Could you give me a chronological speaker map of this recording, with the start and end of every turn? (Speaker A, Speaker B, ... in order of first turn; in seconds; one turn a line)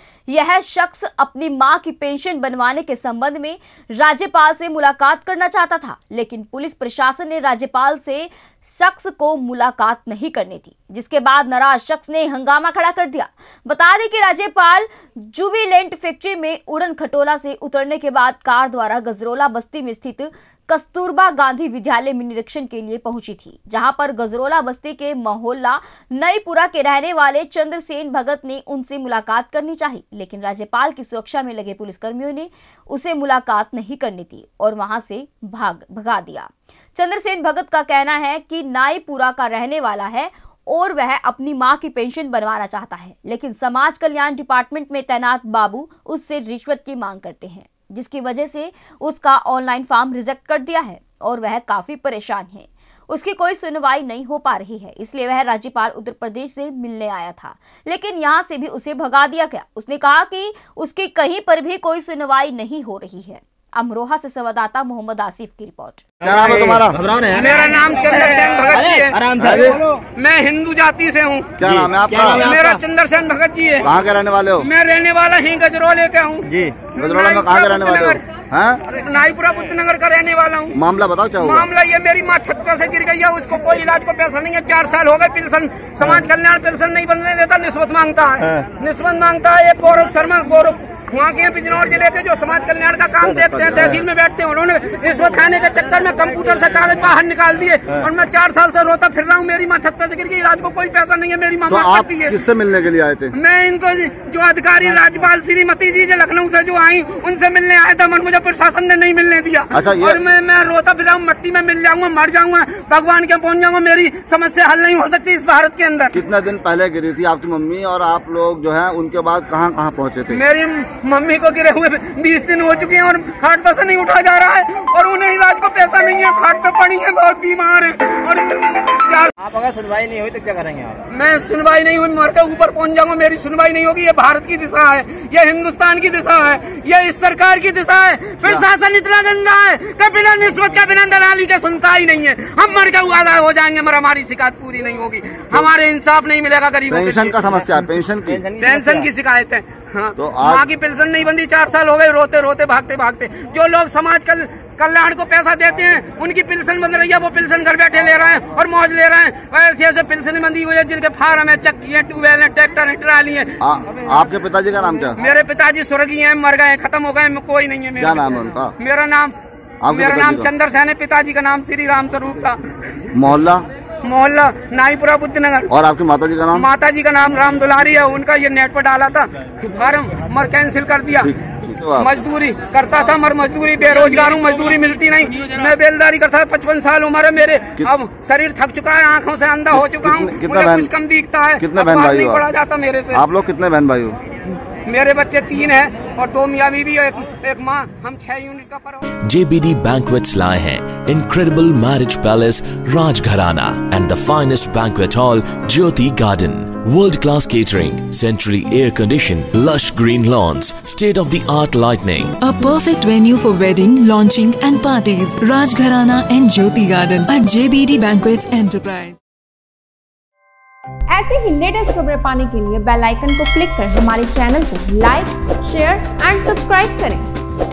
Speaker A: 0.3-66.1
Speaker B: 66.2-67.0
Speaker C: 66.2-70.0
Speaker D: 67.3-69.5
Speaker B: 69.4-69.8
Speaker D: 70.2-71.5
Speaker B: 71.6-72.4
Speaker C: 71.6-72.8
Speaker D: 72.3-73.9
Speaker B: 73.8-74.7
Speaker D: 74.6-78.2
Speaker C: 76.5-76.8
Speaker B: 77.0-78.8
Speaker D: 78.9-80.8
Speaker B: 80.7-81.7
Speaker D: 81.4-102.4
Speaker B: 93.3-94.0
Speaker B: 101.7-103.3
Speaker D: 103.3-116.2
Speaker B: 109.7-110.2
Speaker B: 116.1-120.4
Speaker D: 120.3-129.3
Speaker C: 129.4-131.0
Speaker D: 131.1-147.4
Speaker B: 146.9-148.4
Speaker C: 148.3-149.1
Speaker D: 148.6-163.6
Speaker B: 150.2-150.7
Speaker B: 163.6-165.2
Speaker D: 165.2-169.3
Speaker B: 168.0-168.7
Speaker B: 169.8-170.5
Speaker D: 169.9-172.6
Speaker B: 173.1-173.7
Speaker D: 174.0-175.7
Speaker B: 175.7-176.7
Speaker D: 176.5-181.3
Speaker B: 181.2-182.1
Speaker D: 182.0-193.2
Speaker B: 189.7-190.9
Speaker B: 191.6-192.5
Speaker B: 193.1-194.2
Speaker D: 194.8-199.1
Speaker E: 199.2-212.3
Speaker F: 212.4-219.2
Speaker G: 221.1-227.3